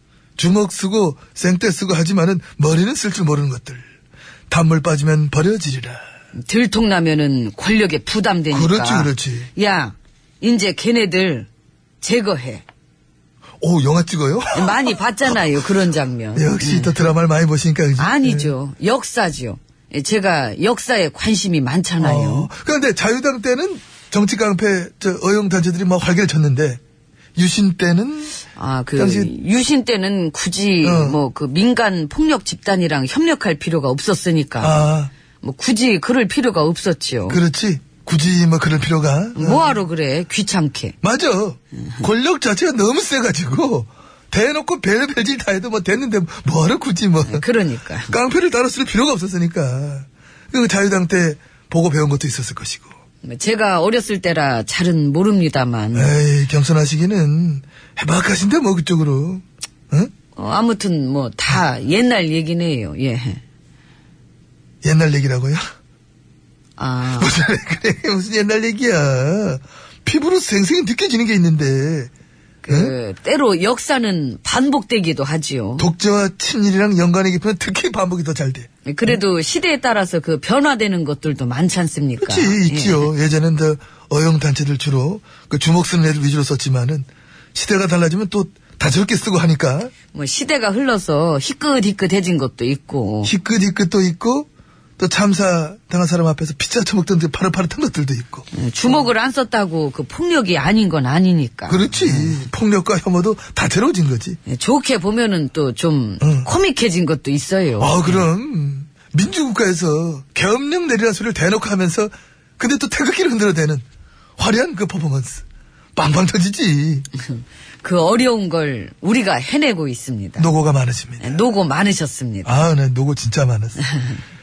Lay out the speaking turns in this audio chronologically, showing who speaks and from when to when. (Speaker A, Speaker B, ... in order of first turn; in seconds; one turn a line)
Speaker A: 0.4-3.9
Speaker A: 4.5-6.0
Speaker B: 6.3-11.5
Speaker A: 8.5-9.5
Speaker B: 12.0-12.6
Speaker A: 13.6-15.4
Speaker B: 14.5-17.1
Speaker A: 16.4-18.5
Speaker B: 18.0-22.5
Speaker A: 22.0-26.8
Speaker A: 27.4-28.4
Speaker B: 28.6-34.9
Speaker A: 28.9-29.3
Speaker A: 30.8-31.2
Speaker A: 34.6-35.1
Speaker B: 35.4-37.4
Speaker A: 37.3-39.8
Speaker B: 39.4-41.0
Speaker A: 41.0-47.5
Speaker B: 41.8-42.1
Speaker B: 47.2-48.1
Speaker A: 48.1-52.9
Speaker B: 53.2-56.1
Speaker A: 56.0-60.1
Speaker B: 60.4-63.4
Speaker A: 64.8-65.7
Speaker B: 66.8-67.3
Speaker A: 67.1-72.1
Speaker B: 72.6-75.9
Speaker A: 75.8-79.2
Speaker B: 78.9-83.1
Speaker A: 82.2-89.9
Speaker B: 90.1-93.3
Speaker A: 93.2-94.5
Speaker A: 95.0-99.0
Speaker B: 98.5-102.5
Speaker A: 101.7-104.4
Speaker B: 104.5-108.2
Speaker A: 106.2-106.5
Speaker A: 107.8-113.8
Speaker A: 114.4-115.5
Speaker A: 116.0-117.1
Speaker B: 117.2-120.5
Speaker A: 120.4-121.4
Speaker B: 121.2-122.7
Speaker A: 122.5-123.8